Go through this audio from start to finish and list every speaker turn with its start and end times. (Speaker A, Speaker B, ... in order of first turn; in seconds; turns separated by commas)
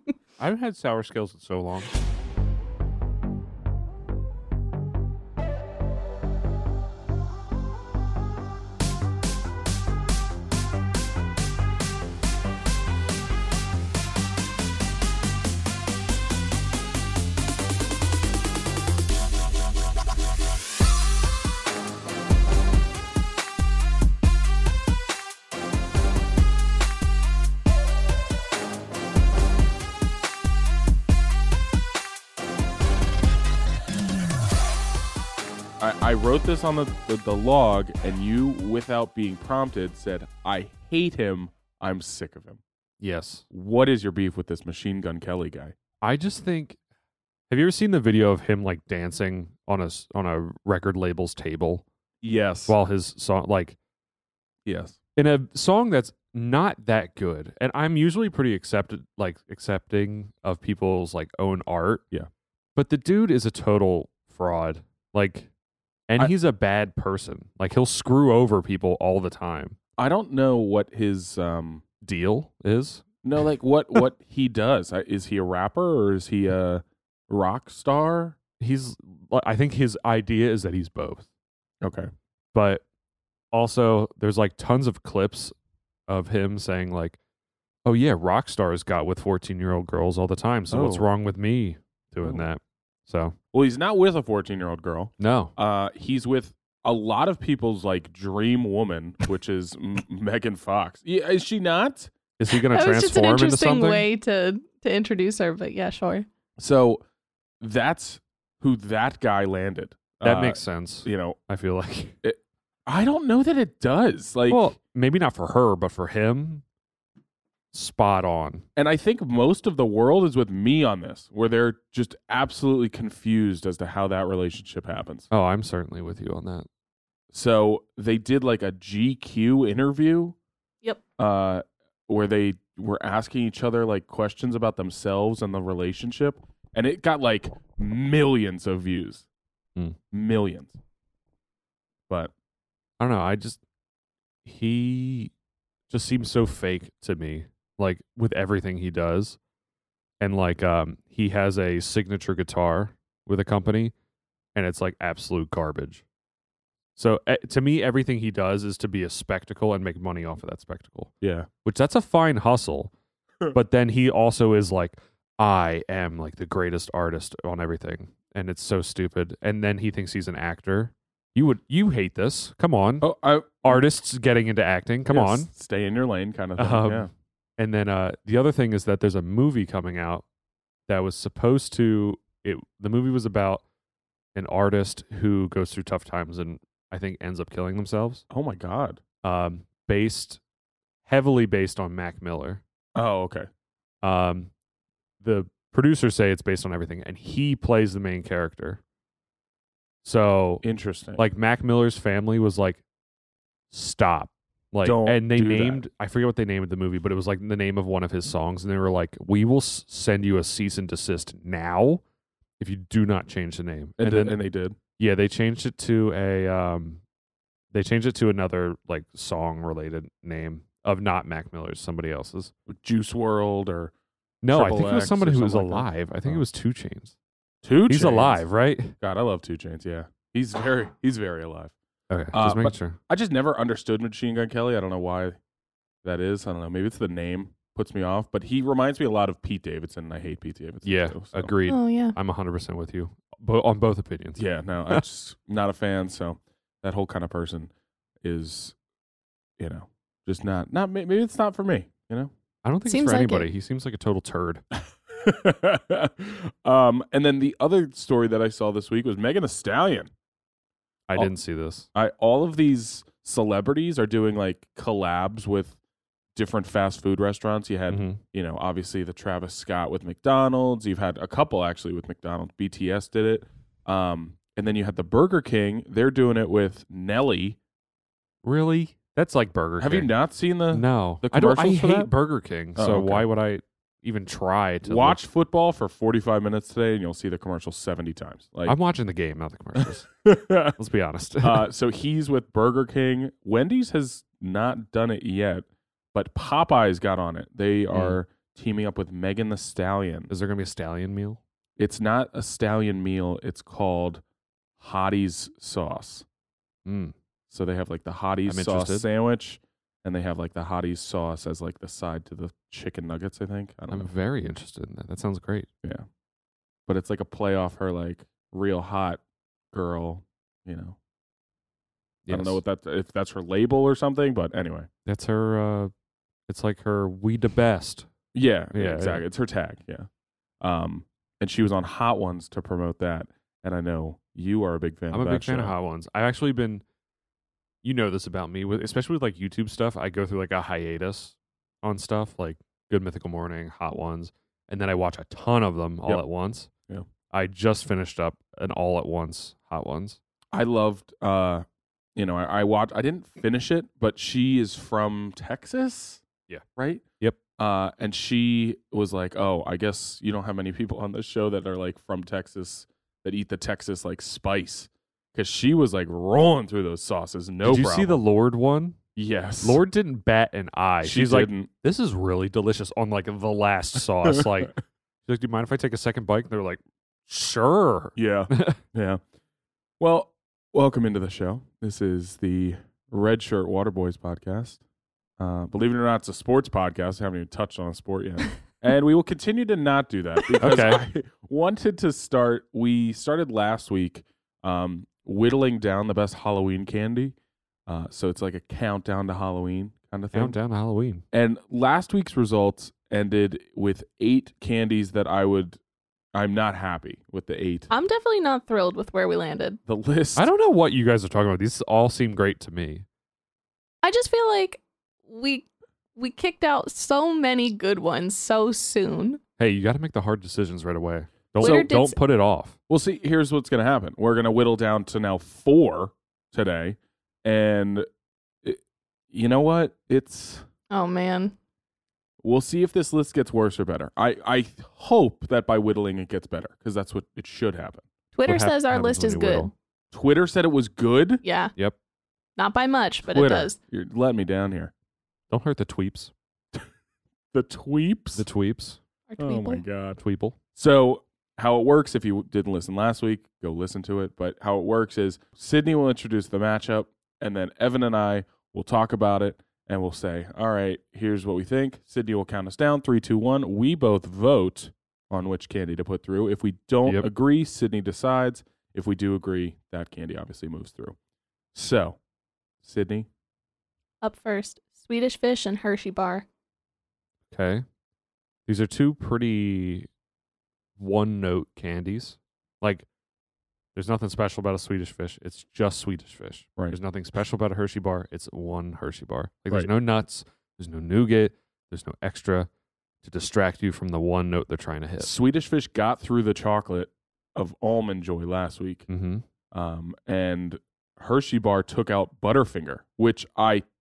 Speaker A: 0.4-1.9, Speaker B: 35.8-42.6, Speaker A: 43.0-43.4, Speaker B: 43.5-45.7, Speaker A: 46.0-46.8, Speaker A: 47.5-51.8, Speaker B: 52.2-52.8, Speaker A: 52.7-53.8, Speaker B: 54.6-55.0, Speaker A: 55.1-62.0, Speaker A: 62.8-65.5, Speaker A: 66.1-69.8, Speaker B: 70.0-71.8, Speaker A: 72.0-73.0, Speaker B: 73.2-78.4, Speaker A: 78.6-81.3, Speaker B: 81.8-82.1, Speaker A: 82.5-82.8, Speaker A: 83.5-85.5, Speaker A: 86.1-87.2, Speaker A: 87.8-93.3, Speaker B: 90.7-91.1, Speaker B: 93.5-102.1, Speaker A: 95.2-95.5, Speaker A: 102.4-104.1, Speaker C: 102.5-106.2, Speaker B: 106.6-107.0, Speaker B: 107.6-111.4, Speaker A: 110.2-112.2, Speaker B: 112.2-114.7, Speaker A: 114.5-116.6, Speaker A: 117.7-118.7, Speaker B: 118.8-125.3, Speaker A: 125.3-126.7, Speaker B: 127.3-130.3, Speaker B: 131.2-139.2, Speaker B: 140.1-140.8, Speaker A: 143.0-143.6, Speaker A: 144.4-145.3, Speaker A: 145.9-149.4, Speaker A: 150.2-153.9, Speaker A: 154.5-156.0, Speaker A: 157.0-162.9, Speaker B: 161.2-161.5, Speaker A: 163.5-173.1, Speaker B: 173.0-173.8, Speaker A: 173.6-175.5, Speaker B: 175.1-177.1, Speaker A: 176.6-180.2, Speaker A: 180.9-183.6, Speaker A: 184.3-188.2, Speaker B: 188.3-189.0, Speaker A: 189.2-190.4, Speaker A: 191.1-192.6, Speaker B: 192.9-193.5, Speaker A: 194.0-194.5, Speaker A: 195.2-198.8, Speaker A: 200.0-200.6, Speaker B: 200.6-201.2, Speaker A: 201.2-202.8, Speaker A: 203.7-212.0, Speaker B: 204.8-205.8, Speaker A: 212.6-214.3, Speaker B: 214.0-214.8, Speaker A: 215.0-217.0, Speaker A: 217.7-222.5, Speaker B: 222.7-223.9, Speaker A: 224.4-227.1, Speaker B: 224.5-226.4, Speaker B: 227.6-228.5, Speaker A: 227.9-228.9, Speaker B: 229.0-231.7, Speaker A: 232.1-233.0, Speaker B: 232.3-235.4, Speaker B: 236.0-241.5, Speaker A: 240.8-245.0, Speaker C: 241.7-242.1, Speaker B: 244.3-247.7, Speaker B: 248.2-248.8, Speaker B: 249.6-252.3, Speaker A: 252.6-254.6, Speaker C: 252.8-253.5, Speaker B: 255.1-260.1, Speaker A: 261.1-261.9, Speaker B: 261.9-265.8, Speaker B: 266.3-277.6, Speaker A: 267.9-268.2, Speaker A: 278.4-280.1, Speaker B: 279.8-282.1, Speaker A: 280.7-285.2, Speaker B: 282.7-283.2, Speaker B: 284.8-288.8, Speaker A: 288.6-290.1, Speaker B: 289.8-290.8, Speaker A: 290.7-291.6, Speaker B: 291.4-300.3, Speaker A: 297.9-298.2, Speaker A: 300.3-301.4, Speaker B: 301.8-304.2, Speaker B: 304.8-306.2, Speaker A: 306.8-307.1, Speaker B: 307.5-314.1, Speaker A: 308.5-309.1, Speaker A: 313.9-315.7, Speaker B: 316.9-321.0, Speaker A: 322.2-322.6, Speaker B: 322.3-324.9, Speaker A: 325.1-325.9, Speaker A: 326.5-328.1, Speaker B: 328.3-330.1, Speaker A: 328.7-329.2, Speaker B: 330.6-335.7, Speaker A: 335.1-336.8, Speaker A: 337.8-346.7, Speaker A: 347.3-350.2, Speaker B: 350.5-351.6, Speaker B: 352.1-356.2, Speaker B: 356.8-357.0, Speaker B: 357.6-368.2, Speaker A: 367.6-369.0, Speaker B: 369.1-369.8, Speaker A: 369.6-378.8, Speaker B: 371.0-371.7, Speaker B: 374.2-374.8, Speaker B: 378.1-379.2, Speaker B: 380.0-384.8, Speaker B: 385.4-397.3, Speaker A: 390.6-391.0, Speaker B: 397.9-400.6, Speaker A: 400.3-401.2, Speaker B: 401.3-405.8, Speaker B: 406.3-407.9, Speaker C: 407.9-409.8, Speaker B: 409.9-410.5, Speaker A: 410.4-413.0, Speaker C: 414.0-415.6, Speaker C: 416.1-419.4, Speaker A: 419.6-422.8, Speaker C: 421.6-422.2, Speaker B: 421.6-421.9, Speaker B: 422.9-428.1, Speaker B: 429.3-430.6, Speaker C: 430.9-431.5, Speaker B: 432.4-438.1, Speaker C: 438.3-439.7, Speaker A: 438.4-439.7, Speaker B: 440.1-441.4, Speaker C: 441.4-441.7, Speaker C: 442.6-443.8, Speaker B: 443.2-444.9, Speaker A: 445.5-446.3, Speaker B: 447.5-448.4, Speaker A: 448.4-449.0, Speaker C: 449.3-449.8, Speaker B: 449.4-450.2, Speaker A: 450.2-450.6, Speaker B: 450.7-471.1, Speaker B: 471.7-472.2, Speaker B: 472.8-473.3, Speaker C: 474.2-476.4, Speaker A: 477.5-477.8, Speaker A: 478.6-480.1, Speaker A: 481.0-483.1, Speaker A: 483.9-492.7, Speaker A: 493.2-495.3, Speaker B: 495.2-499.1, Speaker A: 499.1-499.4, Speaker B: 499.7-503.8